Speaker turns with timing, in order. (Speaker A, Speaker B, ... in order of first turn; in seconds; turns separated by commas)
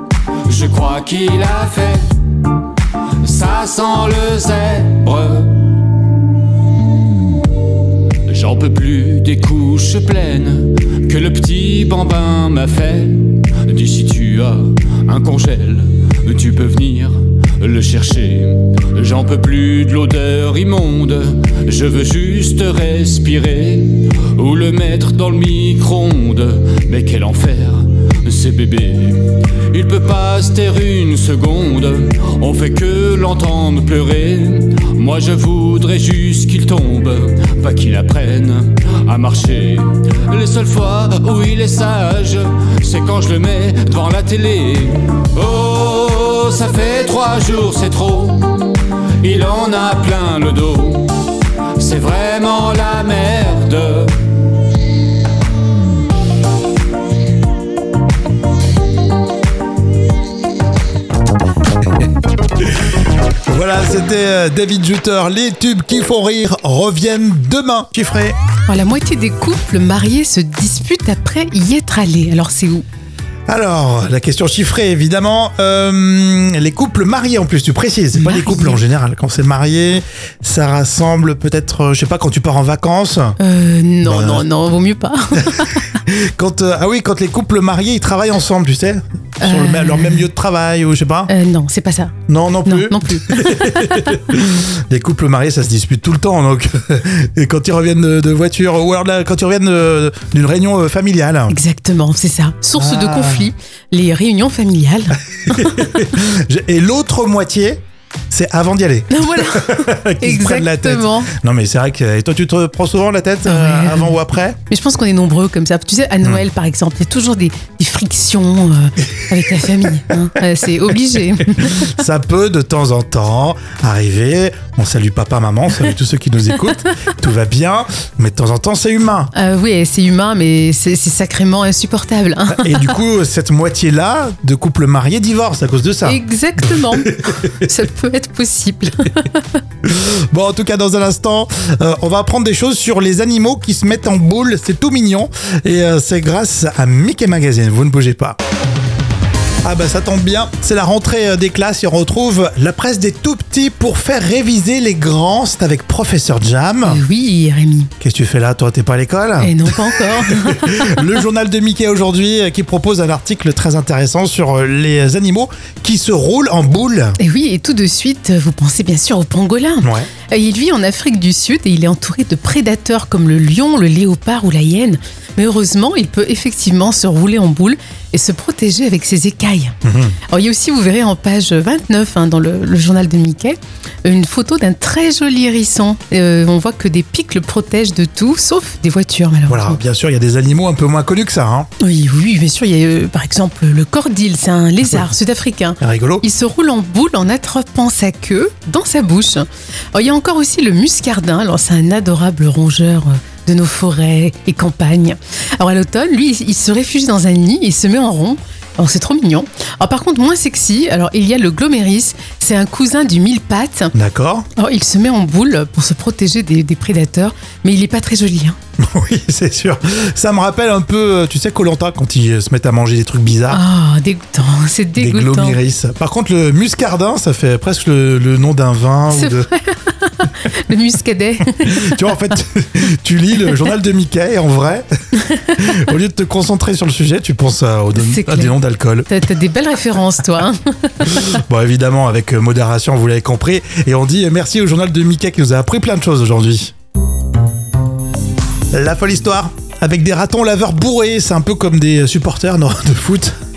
Speaker A: 0.4-2.1, Speaker A: 3.2-5.5, Speaker A: 8.3-54.1, Speaker B: 63.5-68.3, Speaker C: 68.7-72.8, Speaker B: 73.5-83.3, Speaker C: 78.1-78.8, Speaker C: 83.4-85.9, Speaker B: 84.0-84.5, Speaker B: 85.4-91.3, Speaker C: 89.4-90.3, Speaker C: 91.3-92.1, Speaker B: 92.3-101.5, Speaker C: 92.6-93.7, Speaker C: 101.5-105.8, Speaker B: 102.8-103.5, Speaker B: 105.5-114.6, Speaker C: 109.1-111.3, Speaker C: 113.4-114.1, Speaker C: 114.7-121.8, Speaker B: 121.7-129.3, Speaker C: 129.3-132.9, Speaker B: 132.5-137.5, Speaker C: 136.0-139.4, Speaker B: 139.8-148.4, Speaker B: 149.6-157.0, Speaker C: 156.8-157.9, Speaker B: 158.0-167.2, Speaker C: 159.4-160.9, Speaker C: 167.2-179.8, Speaker B: 169.8-170.1, Speaker B: 179.8-180.2, Speaker C: 180.3-189.8, Speaker B: 189.5-191.7, Speaker C: 191.8-213.9, Speaker B: 195.8-196.2, Speaker B: 213.9-214.4, Speaker C: 214.6-218.6, Speaker B: 218.8-223.6, Speaker C: 223.5-225.6, Speaker B: 225.0-229.5, Speaker C: 229.1-231.9, Speaker B: 231.6-234.9, Speaker B: 235.6-239.1, Speaker C: 238.0-238.5, Speaker C: 239.1-241.2, Speaker B: 241.1-246.7, Speaker B: 248.7-253.3